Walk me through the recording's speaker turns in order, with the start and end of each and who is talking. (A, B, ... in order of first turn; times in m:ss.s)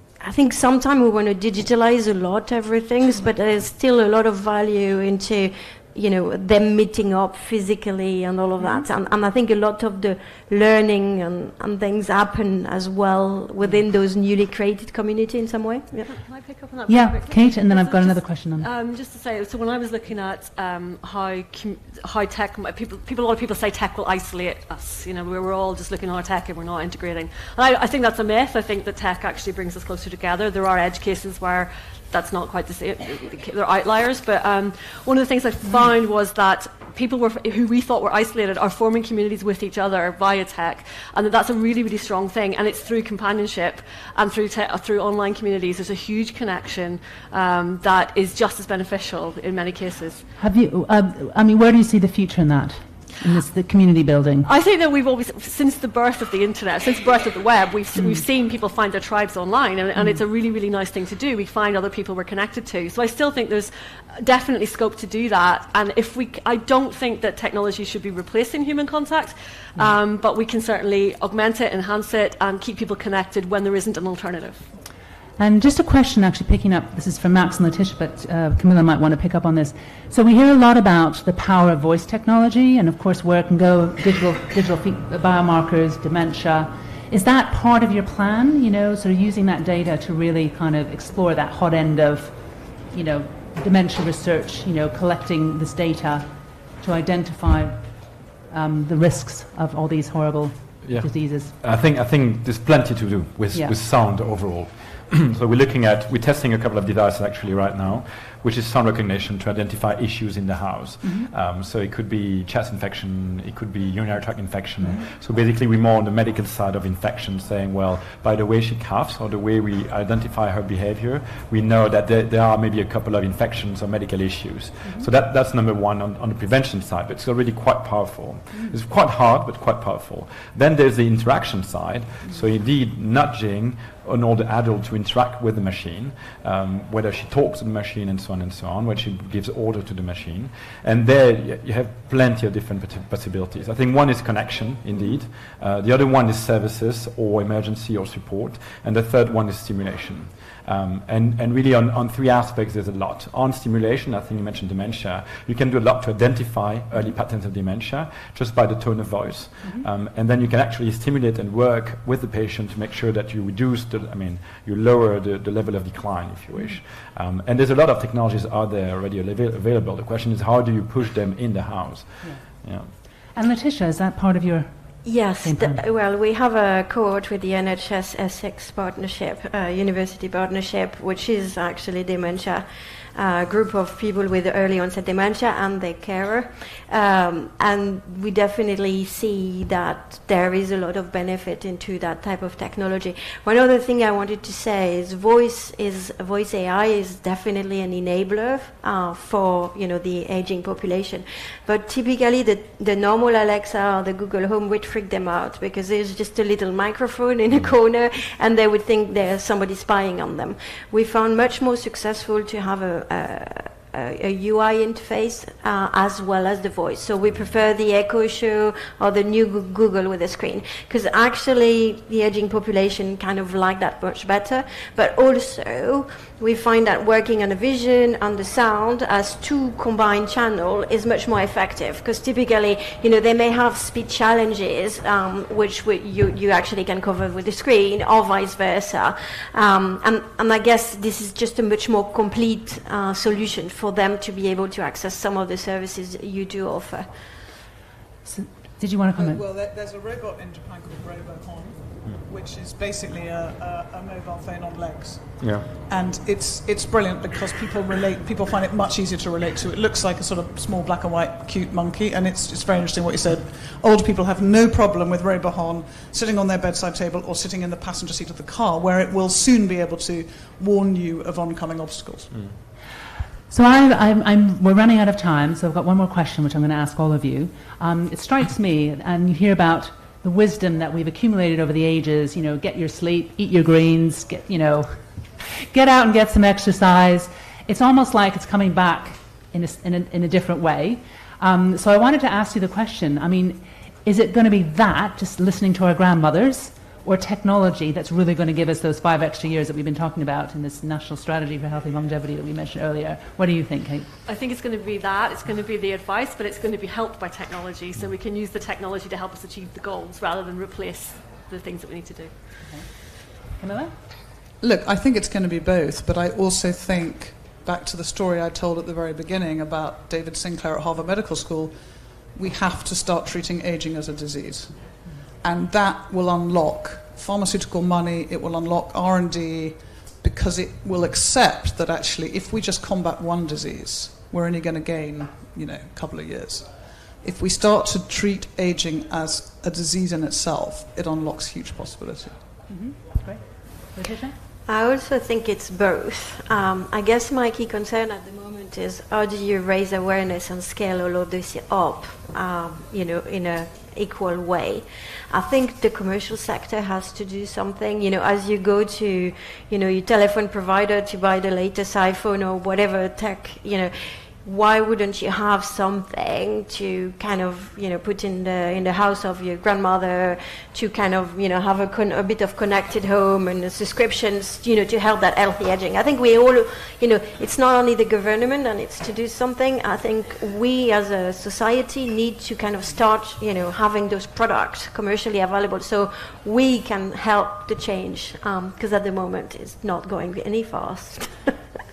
0:00.2-0:16.1 A
0:16.0-0:50.2 B
0:16.9-0:18.7 C
0:35.6-0:35.9 C
0:50.4-0:54.5 C
0:54.4-1:14.6 B
0:58.0-0:58.2 C
1:00.0-1:00.2 C
1:15.4-1:32.4 C
1:32.9-1:41.6 C
1:40.8-2:52.9 D
1:51.0-1:51.3 C
2:52.2-2:52.5 C
2:53.3-2:55.8 C
2:55.0-4:07.1 A
4:08.2-4:09.4 C
4:09.2-4:32.4 E
4:15.4-4:15.7 D
4:33.5-5:04.1 C
5:04.3-5:12.3 B
5:13.6-5:13.9 C
5:14.6-5:36.7 E
5:37.2-5:42.4 E
5:42.7-5:44.4 C
5:44.7-6:31.6 A